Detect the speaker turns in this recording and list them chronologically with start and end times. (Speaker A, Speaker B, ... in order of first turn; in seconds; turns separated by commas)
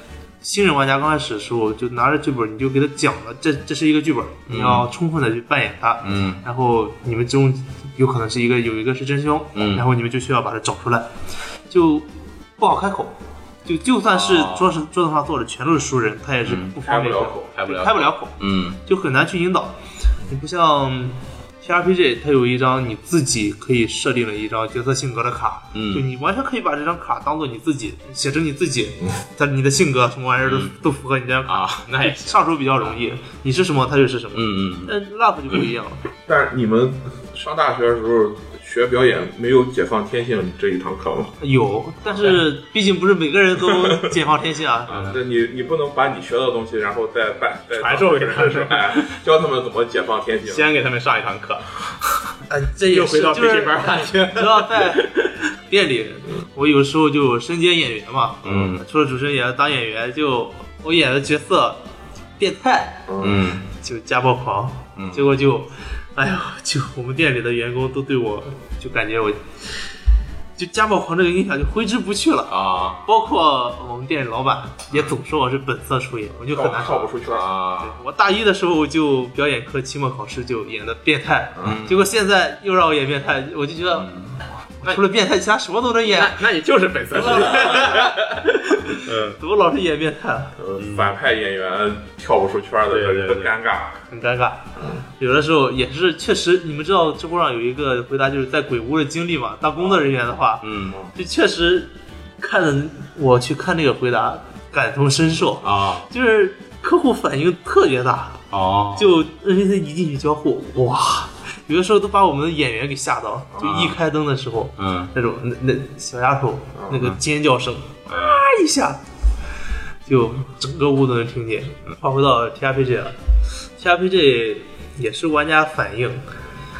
Speaker A: 0.4-11.1, Speaker B: 4.5-4.9, Speaker B: 6.0-6.4, Speaker B: 9.5-9.8, Speaker A: 11.7-12.1, Speaker A: 12.6-19.7, Speaker B: 14.1-14.7, Speaker B: 16.4-16.7, Speaker C: 16.8-17.5, Speaker B: 17.5-18.8, Speaker A: 20.3-36.0, Speaker B: 25.7-26.1, Speaker B: 30.4-30.8, Speaker B: 31.4-33.0, Speaker B: 34.3-34.9, Speaker C: 36.2-41.4, Speaker A: 41.4-44.9, Speaker B: 42.1-42.4, Speaker B: 44.9-45.2, Speaker C: 44.9-50.7, Speaker B: 47.8-49.1, Speaker B: 50.5-52.2, Speaker A: 52.5-61.8, Speaker B: 52.9-55.3, Speaker B: 58.4-58.8, Speaker A: 62.4-63.1, Speaker C: 63.1-63.5, Speaker B: 63.2-63.6, Speaker A: 63.7-69.5, Speaker B: 65.0-65.2, Speaker A: 70.6-77.1, Speaker B: 72.5-73.1, Speaker C: 76.5-77.5, Speaker B: 77.2-78.0, Speaker A: 77.8-84.1, Speaker C: 81.5-81.8, Speaker B: 81.6-82.0, Speaker B: 83.9-85.0, Speaker A: 84.8-86.4, Speaker B: 86.0-89.4, Speaker A: 87.1-90.5, Speaker C: 90.6-94.0, Speaker B: 90.8-91.1, Speaker B: 92.9-93.5, Speaker A: 94.1-108.4, Speaker B: 100.6-101.0, Speaker B: 105.6-106.1, Speaker B: 108.5-109.2, Speaker A: 109.0-119.0, Speaker B: 113.6-114.0, Speaker B: 114.8-115.1, Speaker C: 116.7-117.1, Speaker B: 118.1-118.4, Speaker A: 120.0-123.1, Speaker A: 123.8-126.2